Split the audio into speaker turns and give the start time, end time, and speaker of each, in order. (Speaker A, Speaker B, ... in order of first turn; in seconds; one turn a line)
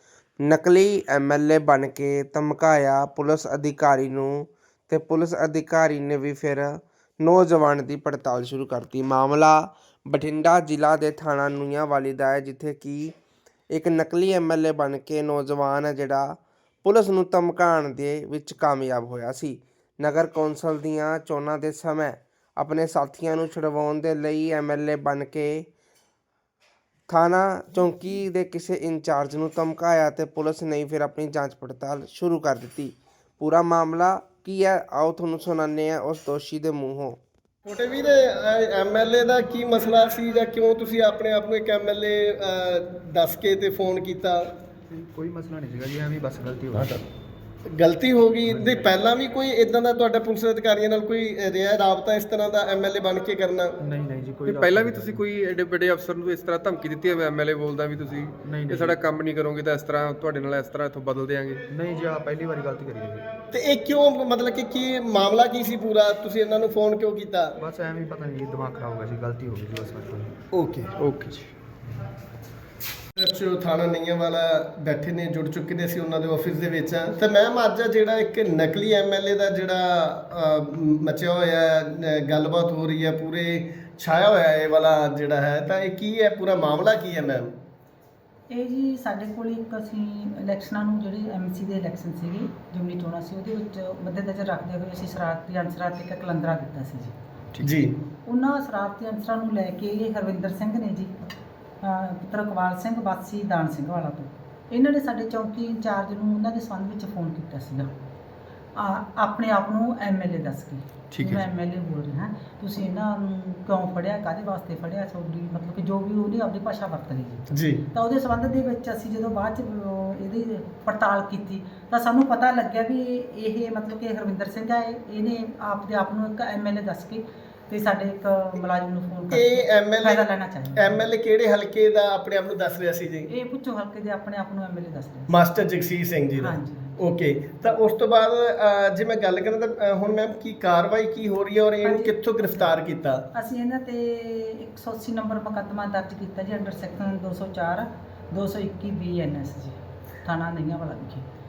Speaker A: 0.4-13.1
Speaker A: 13.7-25.7
Speaker A: 27.1-37.2
Speaker B: 37.6-44.4
Speaker C: 44.9-47.0
Speaker B: 47.7-53.7
Speaker C: 48.5-48.9
Speaker C: 53.8-55.2
Speaker D: 54.4-61.6
Speaker C: 58.4-59.0
Speaker C: 61.7-63.3
Speaker B: 63.5-67.5
Speaker C: 67.6-70.3
Speaker B: 70.5-70.9
Speaker D: 71.0-71.5
Speaker B: 73.2-87.5
Speaker E: 88.5-97.1
Speaker D: 97.5-97.8
Speaker B: 97.6-97.9
Speaker E: 98.1-101.1
Speaker E: 101.8-107.9
Speaker E: 108.7-131.0
Speaker D: 111.1-111.4
Speaker B: 117.5-117.8
Speaker B: 129.3-133.3
Speaker E: 133.3-135.3
Speaker B: 135.3-143.2
Speaker E: 136.4-137.0
Speaker E: 141.8-142.7
Speaker E: 143.3-151.2